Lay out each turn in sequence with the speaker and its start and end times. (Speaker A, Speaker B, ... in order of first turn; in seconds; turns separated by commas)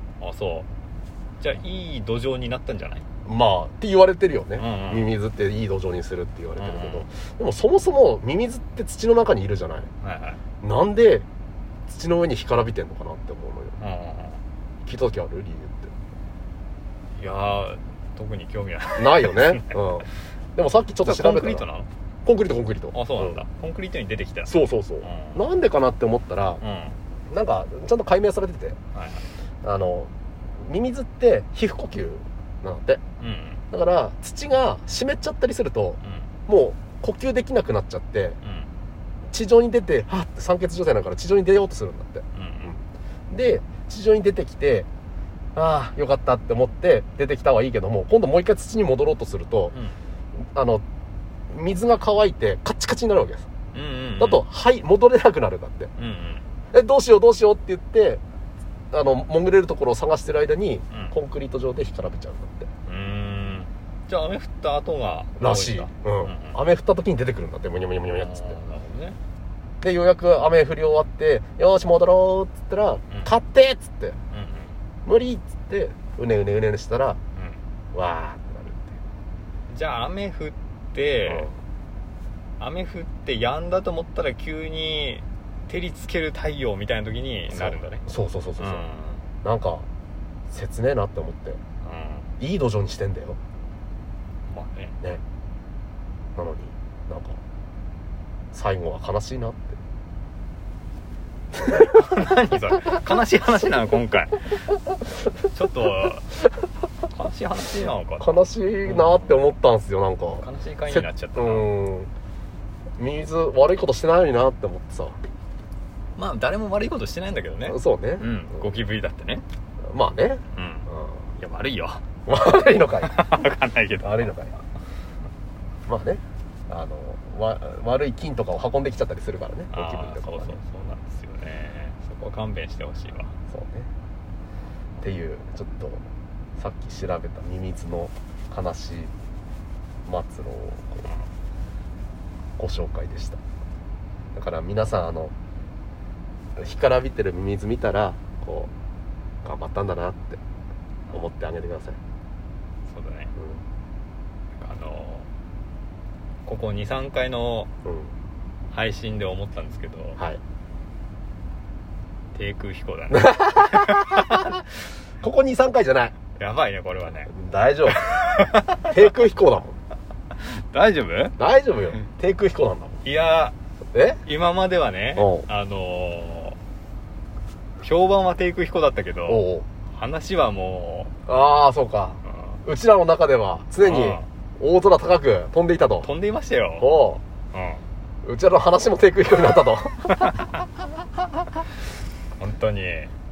Speaker A: 0.2-0.7, Speaker A: 1.4-3.0, Speaker B: 3.2-9.9, Speaker A: 4.6-5.1, Speaker A: 6.6-7.1, Speaker A: 10.0-10.4, Speaker B: 10.6-11.3, Speaker B: 11.9-13.8, Speaker A: 13.8-14.4, Speaker B: 14.8-15.9, Speaker A: 17.2-19.8, Speaker B: 19.0-21.7, Speaker A: 21.0-21.9, Speaker B: 22.2-23.4, Speaker A: 22.9-25.4, Speaker B: 24.5-26.6, Speaker A: 26.6-27.0, Speaker B: 27.3-28.8, Speaker A: 28.9-29.3, Speaker B: 29.6-33.0, Speaker A: 33.2-33.6, Speaker B: 33.7-38.4, Speaker A: 36.0-36.3, Speaker A: 38.4-38.7, Speaker B: 39.3-44.9, Speaker A: 42.3-42.7, Speaker B: 45.5-49.8, Speaker A: 49.7-50.0, Speaker B: 50.4-50.8, Speaker B: 51.5-53.5, Speaker A: 53.7-54.4, Speaker B: 54.2-55.9, Speaker A: 56.0-56.5, Speaker B: 56.7-58.2, Speaker B: 58.9-62.7, Speaker A: 62.9-66.6, Speaker B: 65.4-68.6, Speaker A: 68.1-69.2, Speaker B: 69.8-74.2, Speaker A: 74.3-74.8, Speaker B: 75.0-77.2, Speaker A: 77.4-77.6, Speaker B: 77.9-79.0, Speaker A: 79.7-81.5, Speaker B: 81.3-81.5, Speaker A: 82.6-88.0, Speaker B: 87.5-88.9, Speaker A: 88.6-89.2, Speaker B: 89.4-89.9, Speaker B: 90.5-91.6, Speaker A: 91.8-92.3, Speaker B: 92.4-93.4, Speaker A: 94.5-95.0, Speaker B: 96.4-97.4, Speaker B: 98.5-99.8, Speaker A: 101.6-104.7, Speaker A: 105.3-106.4, Speaker A: 107.1-109.5, Speaker B: 108.2-112.1, Speaker A: 110.4-111.7, Speaker B: 113.0-115.2, Speaker A: 116.2-119.4, Speaker B: 117.7-118.7, Speaker B: 119.8-121.3, Speaker A: 120.5-120.9, Speaker A: 121.4-122.0, Speaker B: 122.3-123.2, Speaker A: 123.0-124.3, Speaker B: 124.0-124.6, Speaker B: 125.9-130.6, Speaker A: 129.7-133.3, Speaker B: 133.5-133.9, Speaker B: 135.0-136.0, Speaker B: 136.6-139.1, Speaker B: 140.1-141.1, Speaker B: 142.6-143.4, Speaker B: 144.3-145.3, Speaker B: 146.6-148.7, Speaker B: 149.4-150.4, Speaker B: 151.1-152.0, Speaker A: 152.9-153.3, Speaker B: 153.4-153.6, Speaker A: 154.6-155.3, Speaker A: 156.4-157.7, Speaker B: 157.8-158.1, Speaker A: 158.7-160.2, Speaker A: 162.3-164.6, Speaker B: 163.1-164.6, Speaker B: 165.2-166.2, Speaker A: 166.3-167.3, Speaker B: 167.3-169.8, Speaker A: 167.9-168.9, Speaker A: 170.4-171.4, Speaker B: 171.4-173.0, Speaker A: 173.0-173.6, Speaker B: 173.9-174.2, Speaker A: 174.2-176.6, Speaker B: 175.2-175.5, Speaker A: 177.8-181.1, Speaker B: 179.3-179.7, Speaker B: 181.3-186.1, Speaker A: 182.2-182.6, Speaker A: 183.8-184.3, Speaker A: 186.0-186.9, Speaker B: 186.8-187.2, Speaker A: 187.5-187.8, Speaker B: 188.2-190.4, Speaker A: 190.1-190.5, Speaker A: 192.4-193.1